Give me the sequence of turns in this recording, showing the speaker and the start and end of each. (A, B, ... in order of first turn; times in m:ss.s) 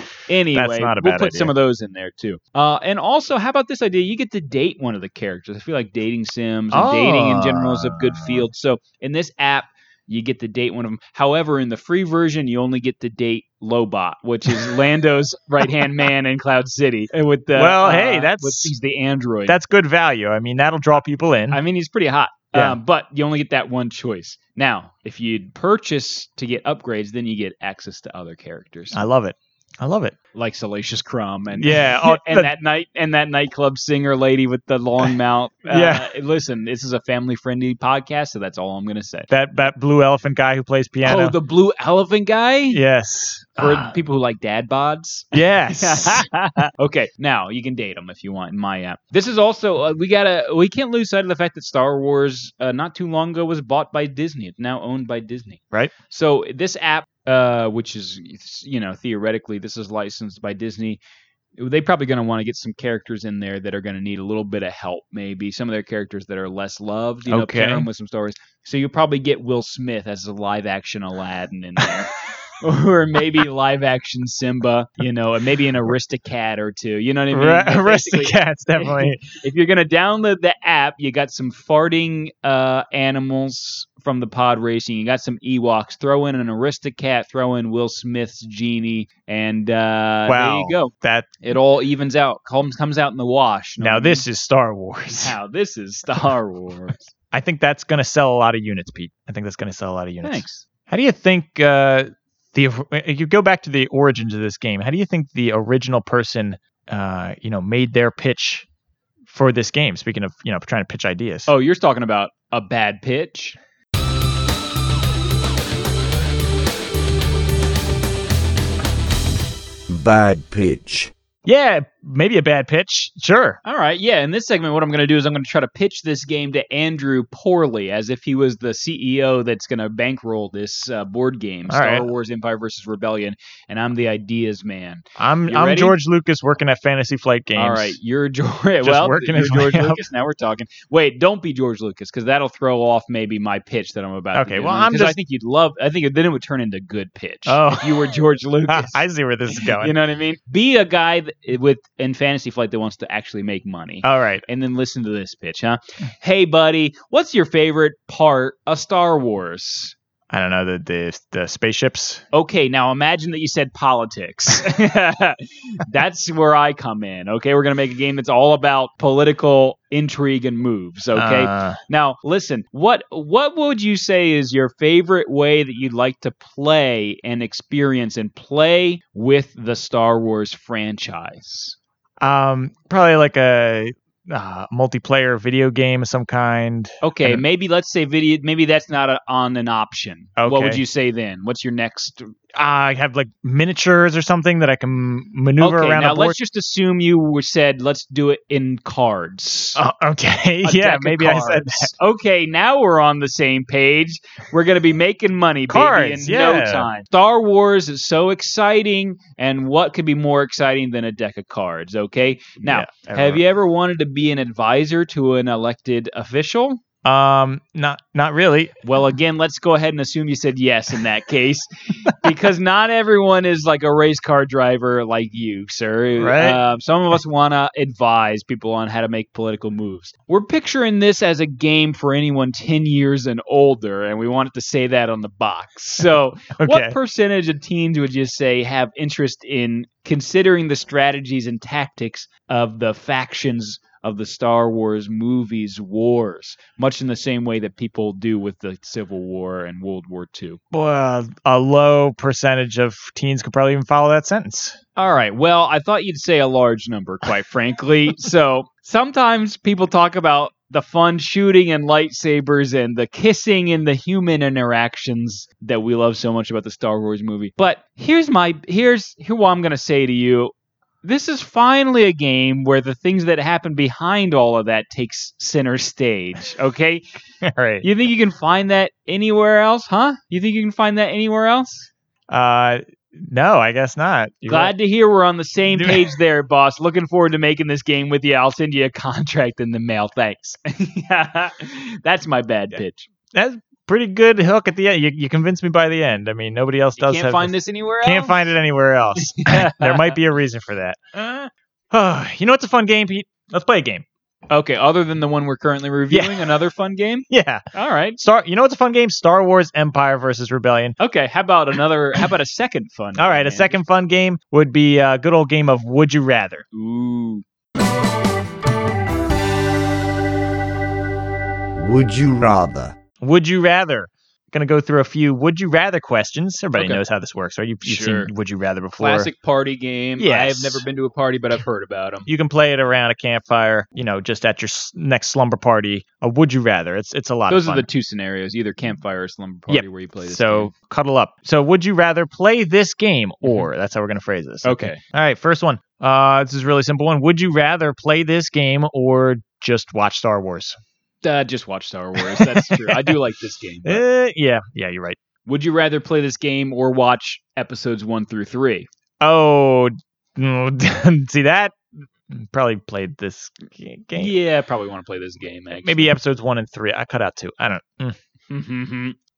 0:00.3-0:19.6 A
0:00.5-0:01.5 B
0:06.7-0:08.5 B
0:17.6-0:18.7 B
0:19.5-0:21.6 B
0:21.5-0:29.0 A
0:28.9-0:30.2 B
0:30.4-0:39.3 A
0:31.5-0:32.5 B
0:35.7-0:36.1 B
0:39.3-0:41.4 B
0:41.0-0:42.8 A
0:42.7-0:44.0 B
0:43.6-1:01.0 A
0:45.3-0:46.3 B
1:01.6-1:34.3 A
1:07.3-1:07.9 B
1:17.3-1:19.2 B
1:30.3-1:31.3 B
1:33.8-1:35.4 B
1:35.1-1:37.1 A
1:37.3-1:48.7 B
1:40.2-1:40.6 A
1:49.3-1:51.5 B
1:51.5-1:53.6 A
1:59.9-2:01.1 C
2:01.4-2:03.6 B
2:03.6-2:16.0 A
2:11.7-2:12.1 B
2:15.2-2:18.0 B
2:17.6-2:40.0 A
2:18.8-2:20.0 B
2:24.4-2:25.2 B
2:27.5-2:28.1 B
2:28.7-2:29.9 B
2:34.0-2:34.4 B
2:40.3-2:42.2 B
2:42.3-3:01.8 A
2:51.2-2:51.8 B
3:02.2-3:07.4 B
3:07.0-3:12.4 A
3:10.4-3:10.8 B
3:12.5-3:16.4 B
3:15.6-3:19.8 A
3:19.8-3:21.9 B
3:20.6-3:36.8 A
3:25.7-3:26.9 B
3:32.6-3:33.4 B
3:37.0-3:38.8 B
3:38.8-4:10.6 A
3:46.2-3:46.6 B
3:56.6-3:57.0 B
4:10.7-4:14.8 B
4:15.0-4:37.1 A
4:37.4-4:37.9 B
4:37.8-4:41.9 A
4:42.3-4:44.7 B
4:44.5-4:53.1 A
4:45.7-4:46.1 B
4:53.3-5:01.1 B
4:57.0-4:58.5 A
4:59.2-5:00.2 A
5:01.2-5:01.5 A
5:01.9-5:04.0 B
5:04.5-5:08.2 A
5:06.1-5:06.5 B
5:07.3-5:07.7 B
5:08.2-5:11.0 B
5:11.0-5:13.8 A
5:13.2-5:16.6 B
5:16.7-5:17.4 A
5:21.8-5:23.0 C
5:23.2-5:29.3 B
5:26.8-5:27.0 A
5:27.8-5:28.3 A
5:29.0-5:32.3 A
5:30.2-5:30.8 B
5:32.3-5:37.9 B
5:37.5-5:40.7 A
5:39.7-5:50.8 B
5:44.6-5:45.0 A
5:51.2-5:54.0 A
5:52.2-5:53.2 B
5:53.8-5:55.2 B
5:55.5-5:58.9 A
5:59.2-6:04.3 B
6:04.2-6:06.1 A
6:05.8-6:08.2 B
6:08.5-6:09.2 A